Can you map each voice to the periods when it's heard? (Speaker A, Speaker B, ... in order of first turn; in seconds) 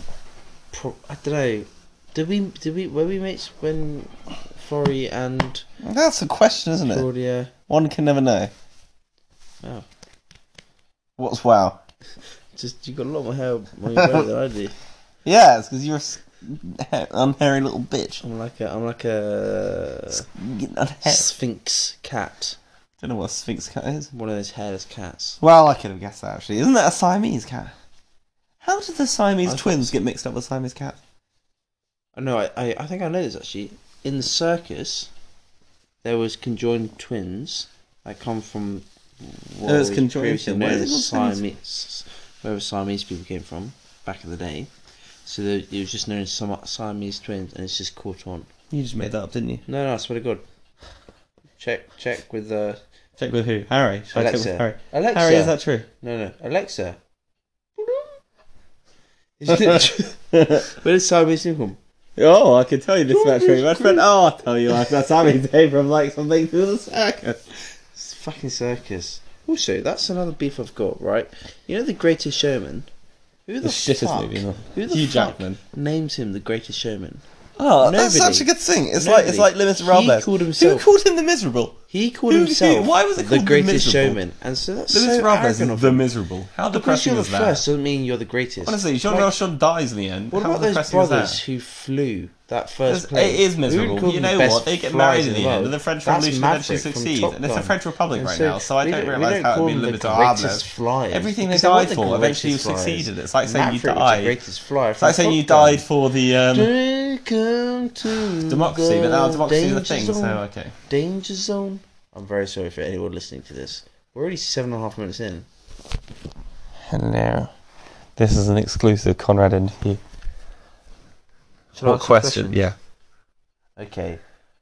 Speaker A: 0.7-5.6, 6.8-7.5, 12.5-14.8, 18.2-20.2, 21.0-22.6, 24.1-25.4, 29.4-30.0, 32.1-35.1, 36.0-44.7, 45.2-48.5, 49.7-50.4, 51.6-52.8, 54.1-57.0, 57.8-58.1, 59.4-60.2, 60.7-61.8, 63.1-64.1, 67.9-72.9, 73.5-77.2, 77.8-80.9, 81.9-86.1, 86.7-89.4, 90.3-105.8, 106.5-115.5, 121.7-122.7, 123.8-124.2
Speaker B: 5.8-7.1, 7.7-8.5, 11.2-11.8, 13.9-14.2, 15.2-18.2, 20.1-21.3, 23.0-24.1, 25.4-27.7, 28.6-31.0, 39.6-41.4, 48.7-49.6, 53.2-55.9, 59.5-60.7, 62.2-67.6, 73.6-75.6, 77.6-84.2, 84.9-87.6, 88.6-91.4, 92.8-104.4, 105.0-106.7, 108.3-110.7, 116.9-117.5, 118.2-120.0, 121.8-122.7